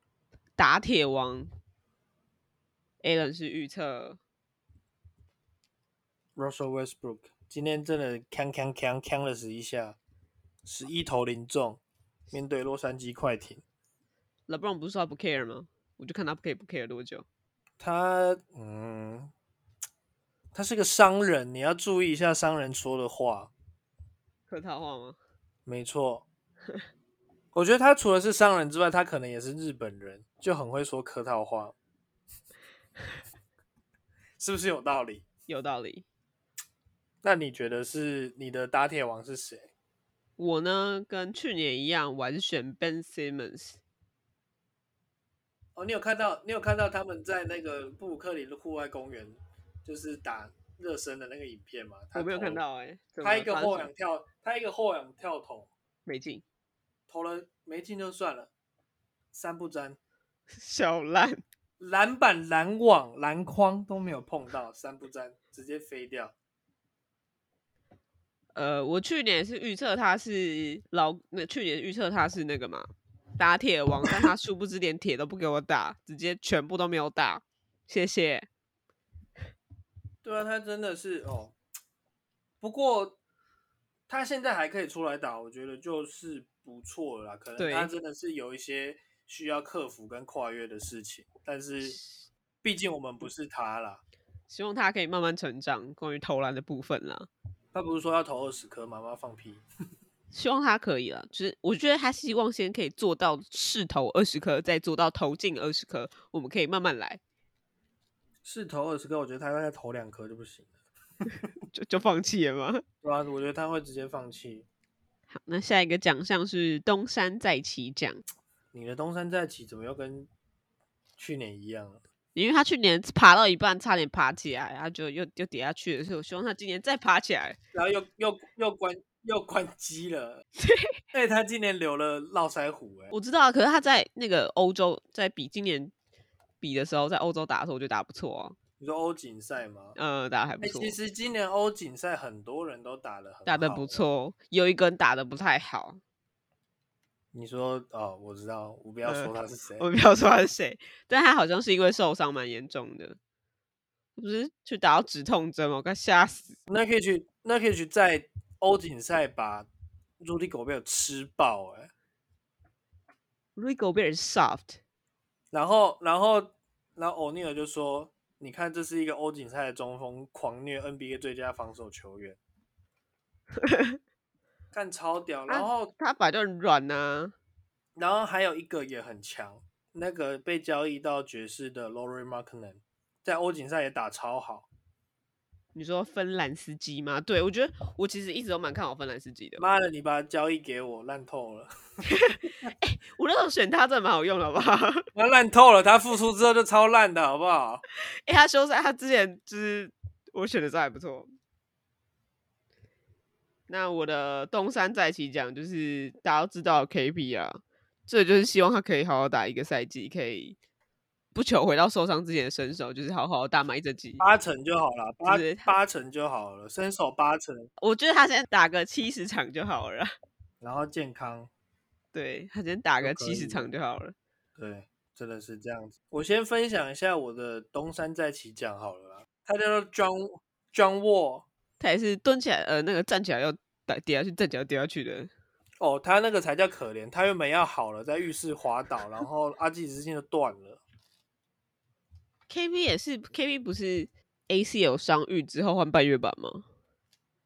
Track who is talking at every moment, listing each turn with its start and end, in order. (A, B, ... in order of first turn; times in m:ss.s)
0:00.6-0:01.5 A
0:03.0-0:04.2 A
0:06.4-0:10.0 B
0:10.6-0:13.6 B
0:14.5-0:17.2 A
0:17.8-0:19.3 B
0:20.5-0:23.5 B
0:24.5-0:25.2 A
0:25.6-0:26.2 B
0:27.5-0:31.7 B
0:34.4-0:35.2 B
0:35.5-0:36.0 A
0:37.2-0:39.7 B
0:40.4-0:43.8 A
0:45.8-0:52.6 B
0:52.1-0:53.9 A
0:53.2-0:55.7 B
0:56.0-0:56.4 A
0:57.1-0:58.5 B
0:59.3-1:00.0 B
1:00.5-1:01.4 A
1:01.8-1:06.3 B
1:08.5-1:18.5 A
1:20.2-1:21.5 B
1:22.6-1:23.2 B
1:24.1-1:32.0 B
1:27.6-1:27.9 A
1:32.6-1:34.0 B
1:34.5-1:37.3 A
1:37.7-1:39.6 B
1:40.3-1:47.2 A
1:48.4-1:50.7 B
1:51.7-1:52.8 A
1:53.0-1:54.6 B
1:55.3-1:58.2 A
1:58.7-2:00.3 B
2:01.2-2:02.0 B
2:02.3-2:07.6 A
2:07.7-2:10.4 B
2:10.6-2:11.0 A
2:11.1-2:13.1 B
2:13.1-2:15.9 A
2:16.6-2:18.6 A
2:18.8-2:20.0 B
2:20.0-2:21.0 A
2:20.6-2:24.0 B
2:23.4-2:26.0 A
2:27.3-2:29.8 B
2:29.1-2:33.2 A
2:34.2-2:36.6 A
2:36.7-2:39.7 B
2:40.2-2:41.9 B
2:43.6-2:44.8 A
2:45.5-2:52.4 B
2:53.6-2:54.0 A
2:54.7-2:55.9 B
2:55.5-2:57.3 A
2:58.0-3:04.7 B
3:05.7-3:09.7 A
3:09.6-3:11.7 B
3:12.0-3:15.1 A
3:15.1-3:17.8 B
3:18.2-3:21.3 A
3:23.7-3:30.6 A
3:31.3-3:34.2 A
3:34.2-3:37.7 B
3:35.2-3:35.7 A
3:37.8-3:40.1 A
3:40.6-3:41.5 B
3:42.1-3:44.1 A
3:43.0-3:43.7 B
3:44.6-3:51.4 B
3:51.8-3:55.3 A
3:55.8-4:00.8 B
4:02.5-4:06.6 A